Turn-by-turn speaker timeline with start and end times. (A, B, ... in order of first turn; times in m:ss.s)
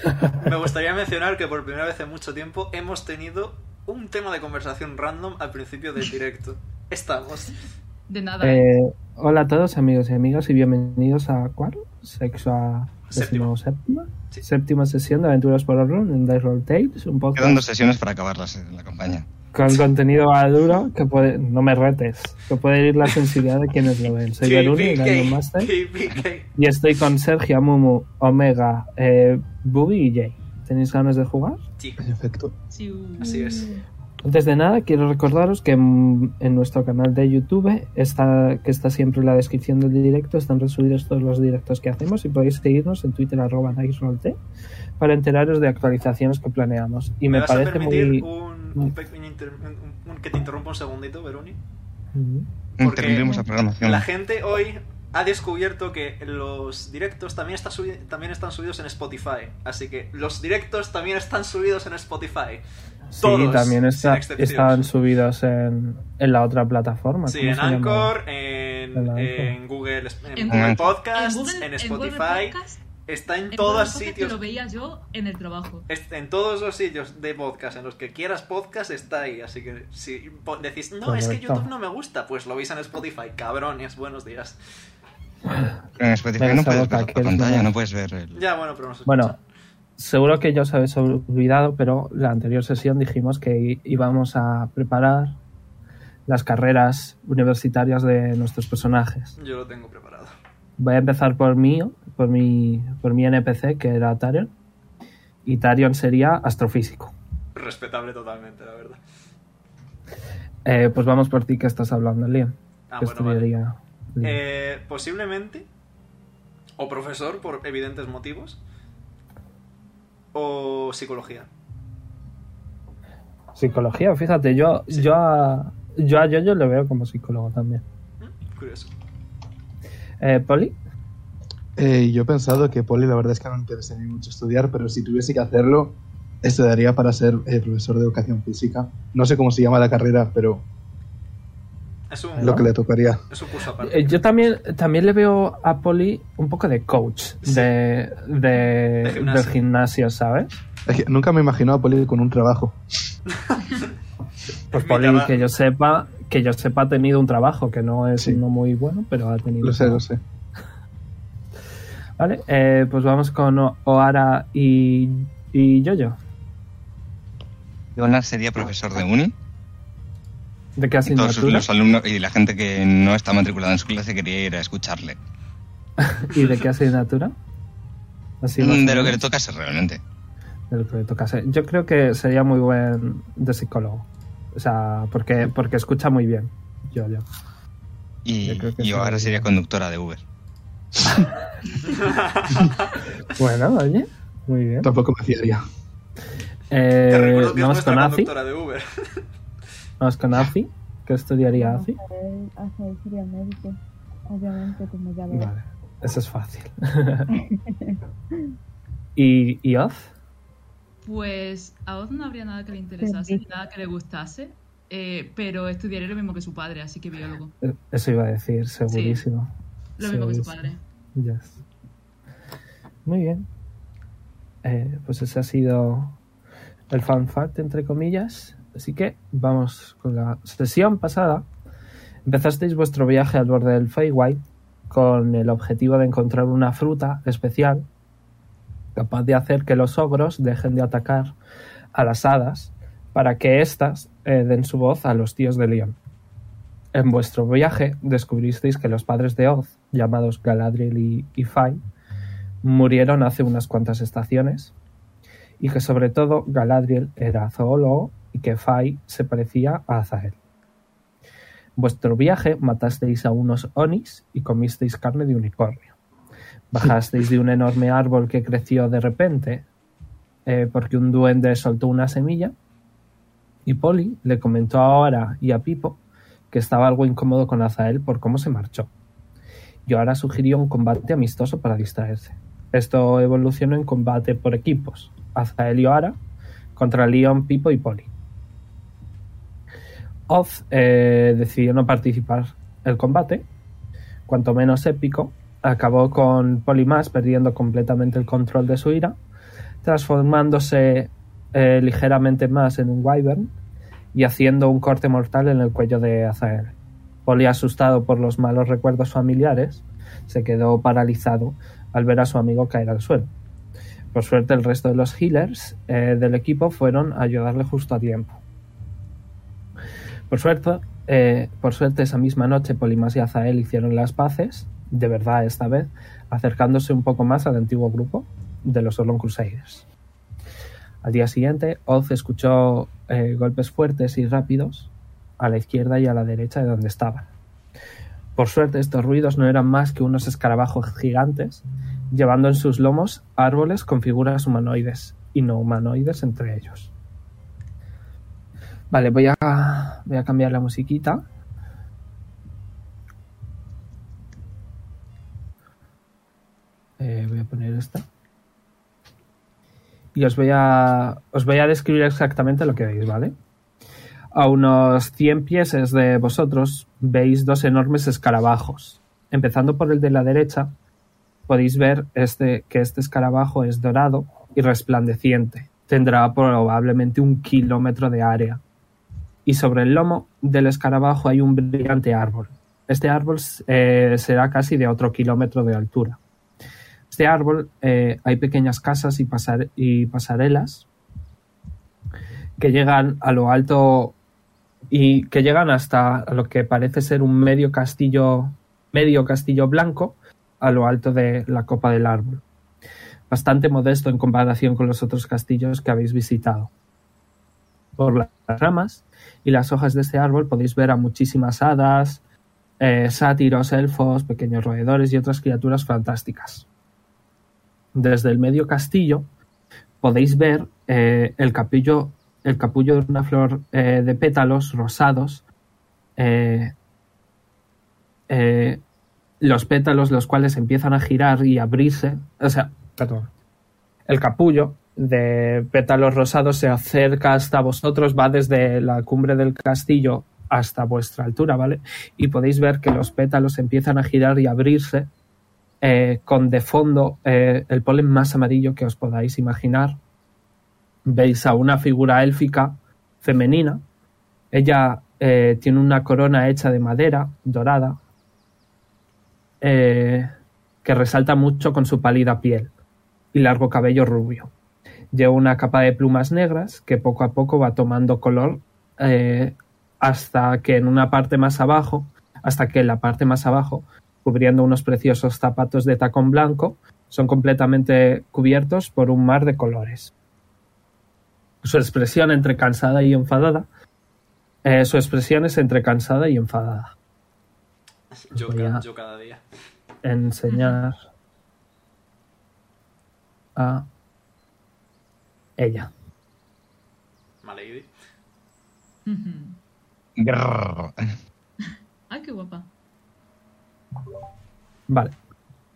0:00.4-0:07.6 A
0:08.1-0:08.7 B
0:08.4-0:17.6 C
0:13.1-0:13.5 A
0:17.4-0:19.3 D
0:19.5-0:25.7 C
0:24.4-0:26.5 A
0:26.6-0:31.6 C
0:32.0-0:32.5 E
0:32.7-0:33.5 B
0:33.2-0:33.7 A
0:33.2-0:33.8 F
0:34.2-0:44.4 C
0:45.0-0:48.9 C
0:47.3-0:51.6 A
0:52.1-0:52.5 C
0:52.8-0:54.0 D
0:52.8-1:02.6 A
1:03.1-1:08.2 C
1:03.2-1:04.9 A
1:07.3-1:14.4 A
1:09.0-1:09.6 C
1:10.3-1:12.8 B
1:10.5-1:10.9 D
1:13.5-1:15.9 B
1:15.9-1:24.6 A
1:21.0-1:21.7 C
1:26.0-1:28.4 D
1:26.4-1:27.7 C
1:28.3-1:29.4 A
1:29.1-1:29.3 C
1:30.0-1:35.4 C
1:36.3-1:39.3 C
1:39.4-1:40.3 A
1:40.8-1:44.5 C
1:45.4-1:47.2 C
1:47.6-1:49.0 A
1:50.6-1:54.4 C
1:52.9-1:53.5 A
1:54.2-1:55.7 A
1:56.8-1:58.6 A
2:00.3-2:01.5 A
2:03.6-2:07.8 C
2:08.2-2:08.9 A
2:10.2-2:10.8 C
2:11.8-2:20.6 E
2:22.1-2:22.7 A
2:22.4-2:22.7 C
2:22.4-2:23.2 E
2:23.3-2:24.2 A
2:23.8-2:30.6 C
2:27.4-2:27.7 A
2:29.0-2:29.6 A
2:30.9-2:32.8 E
2:33.3-2:33.9 A
2:34.7-2:35.5 A
2:34.7-2:40.0 C
2:39.6-2:40.2 E
2:42.2-2:46.2 C
2:48.0-2:49.3 D
2:50.8-2:51.7 C
2:51.1-2:55.2 D
2:56.0-2:57.3 C
2:58.4-2:59.2 C
2:58.6-3:00.0 D
3:00.7-3:07.2 C
3:08.2-3:10.2 D
3:08.4-3:09.5 C
3:11.1-3:11.3 C
3:12.0-3:12.7 A
3:13.3-3:14.9 C
3:14.8-3:15.6 E
3:16.7-3:18.3 C
3:17.1-3:19.2 A
3:20.0-3:22.0 C
3:21.5-3:23.8 F
3:24.3-3:25.5 F
3:25.3-3:27.3 C
3:27.5-3:28.0 F
3:29.2-3:30.1 C
3:31.0-3:37.6 B
3:33.0-3:33.4 F
3:37.6-3:40.6 C
3:38.9-3:39.2 B
3:40.0-3:40.8 B
3:41.2-3:41.6 C
3:43.0-3:43.5 C
3:44.6-3:46.2 C
3:46.9-3:51.5 C
3:52.2-3:57.8 C
3:58.9-4:01.3 C
4:01.9-4:06.0 C
4:06.9-4:11.8 C
4:12.6-4:14.7 C
4:15.6-4:20.4 C
4:21.8-4:25.9 C
4:26.7-4:29.7 C
4:30.4-4:32.5 C
4:33.6-4:36.0 C
4:36.5-4:38.9 C
4:39.8-4:46.2 C
4:46.8-4:48.1 C
4:50.3-4:53.4 C
4:54.3-4:59.2 C
4:59.8-5:03.5 C
5:04.1-5:06.7 C
5:07.2-5:13.3 C
5:14.1-5:18.4 C
5:20.3-5:29.8 C
5:31.0-5:37.2 C
5:38.4-5:46.9 C
5:48.9-5:51.2 C
5:57.0-5:58.1 C
6:00.1-6:03.3 C
6:04.3-6:10.7 C
6:11.5-6:18.6 C
6:19.4-6:26.2 C
6:27.1-6:30.9 C
6:32.6-6:34.2 C
6:34.9-6:42.4 C
6:43.3-6:46.7 C
6:48.0-6:52.2 C
6:52.8-6:56.7 C
6:57.9-6:59.3 C
7:00.0-7:05.4 C
7:06.2-7:06.7 C
7:08.3-7:08.8 C
7:09.4-7:13.3 C
7:14.1-7:25.1 C
7:25.8-7:30.0 C
7:31.0-7:33.8 C
7:34.5-7:38.0 C
7:39.6-7:40.3 C
7:40.8-7:42.7 C
7:43.3-7:44.5 C
7:45.1-8:00.1 C
8:01.6-8:03.7 C
8:04.6-8:06.9 C
8:08.3-8:09.4 A
8:08.4-8:08.8 C
8:10.0-8:11.0 C
8:10.5-8:10.8 B
8:13.6-8:13.9 C
8:15.6-8:15.9 C
8:17.4-8:17.9 A
8:19.0-8:19.6 B
8:20.2-8:21.1 D
8:22.1-8:22.7 B
8:24.9-8:25.1 C